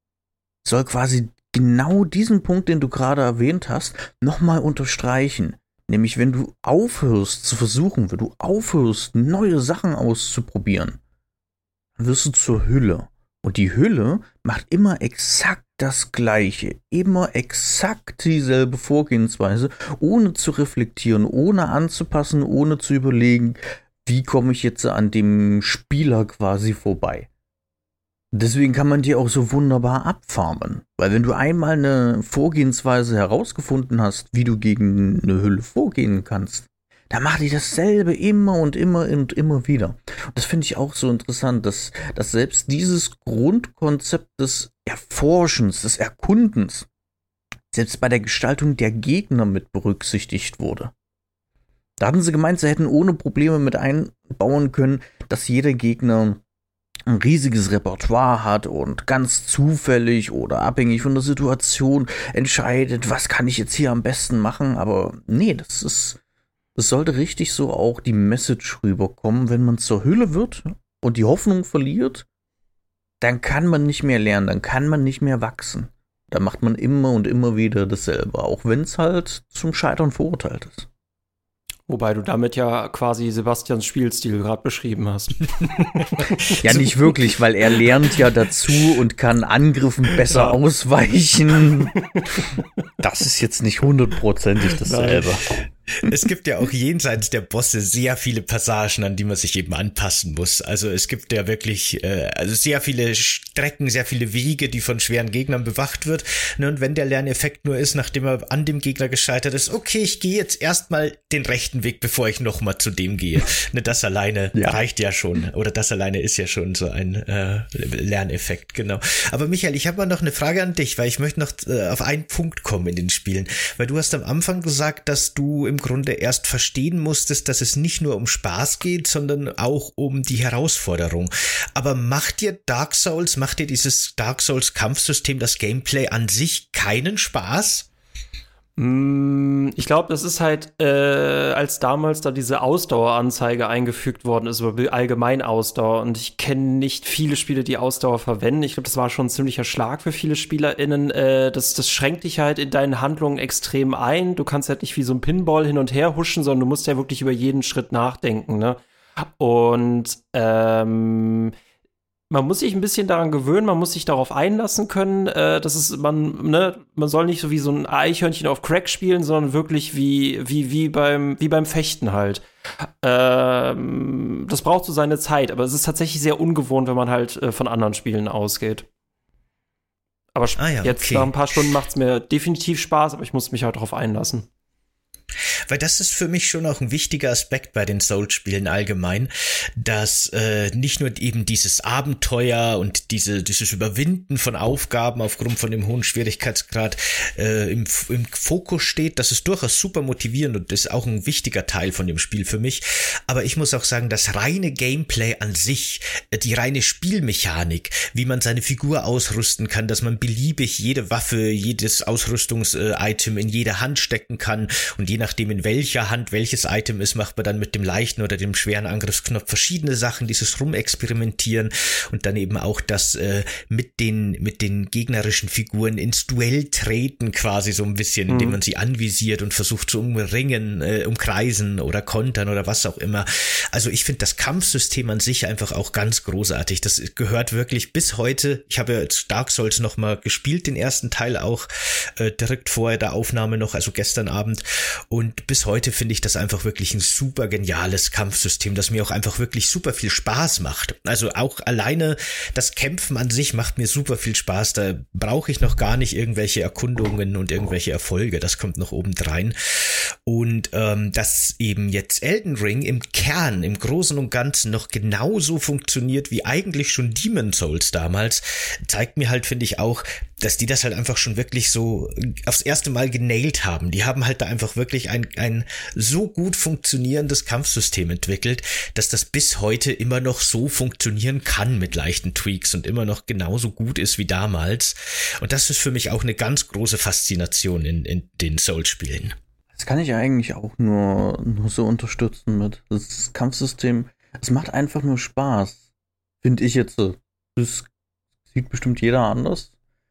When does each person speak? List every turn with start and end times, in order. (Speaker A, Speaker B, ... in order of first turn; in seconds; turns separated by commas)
Speaker A: 0.6-11.0, Speaker A: 12.0-27.3, Speaker A: 28.3-46.9, Speaker A: 47.7-50.9, Speaker A: 52.0-56.4, Speaker A: 57.1-66.2, Speaker A: 66.8-72.3, Speaker A: 73.2-80.9, Speaker B: 81.9-86.9, Speaker A: 86.5-91.9, Speaker B: 90.3-90.6, Speaker B: 92.1-92.7, Speaker A: 93.0-95.5, Speaker B: 94.8-95.3, Speaker C: 96.0-137.9, Speaker A: 114.5-114.8, Speaker B: 138.8-158.8, Speaker B: 159.4-161.5, Speaker B: 162.3-172.4, Speaker B: 173.0-178.9, Speaker B: 180.3-184.5, Speaker C: 180.6-181.3, Speaker C: 185.7-289.4, Speaker B: 228.3-228.6, Speaker A: 289.8-295.8, Speaker A: 296.4-297.9, Speaker A: 298.5-299.7